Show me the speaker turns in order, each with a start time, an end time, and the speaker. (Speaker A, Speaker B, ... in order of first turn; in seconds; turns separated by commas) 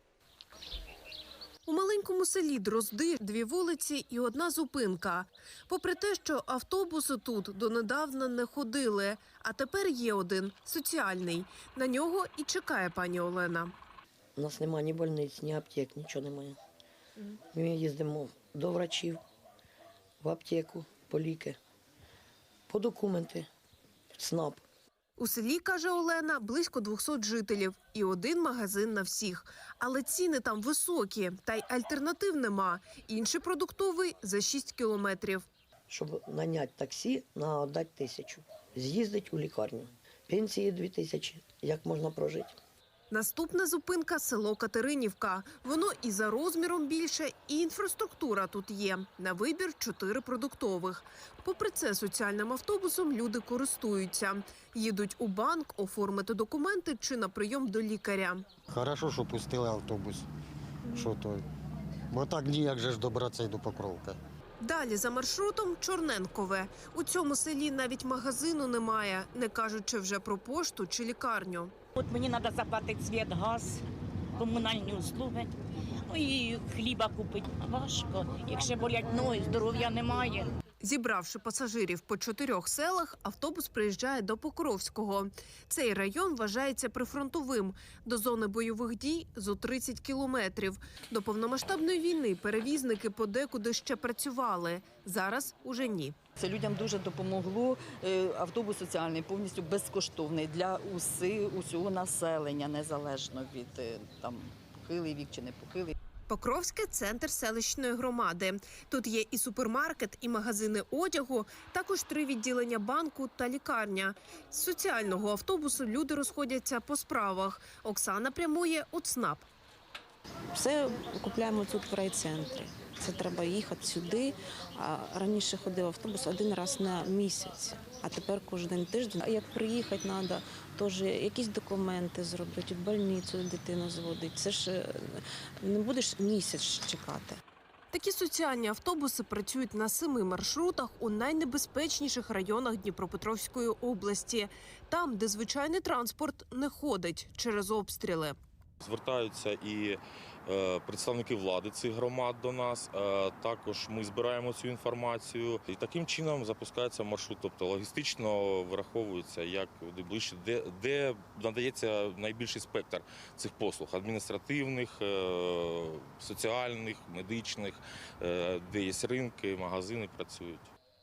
Speaker A: 1.6-13.7, Speaker B: 14.3-16.6, Speaker B: 17.5-19.2, Speaker B: 20.2-21.6, Speaker B: 22.7-23.5, Speaker B: 24.2-24.6, Speaker A: 25.2-35.5, Speaker B: 35.9-42.6, Speaker A: 43.1-58.5, Speaker C: 58.7-60.2, Speaker C: 60.9-61.4, Speaker C: 62.1-64.2, Speaker A: 64.6-71.7, Speaker D: 72.0-73.8, Speaker D: 74.4-75.5, Speaker D: 76.0-80.5, Speaker A: 80.8-96.2, Speaker E: 96.4-105.9, Speaker A: 106.3-119.5, Speaker F: 120.5-137.4, Speaker A: 137.9-148.3, Speaker G: 148.8-170.7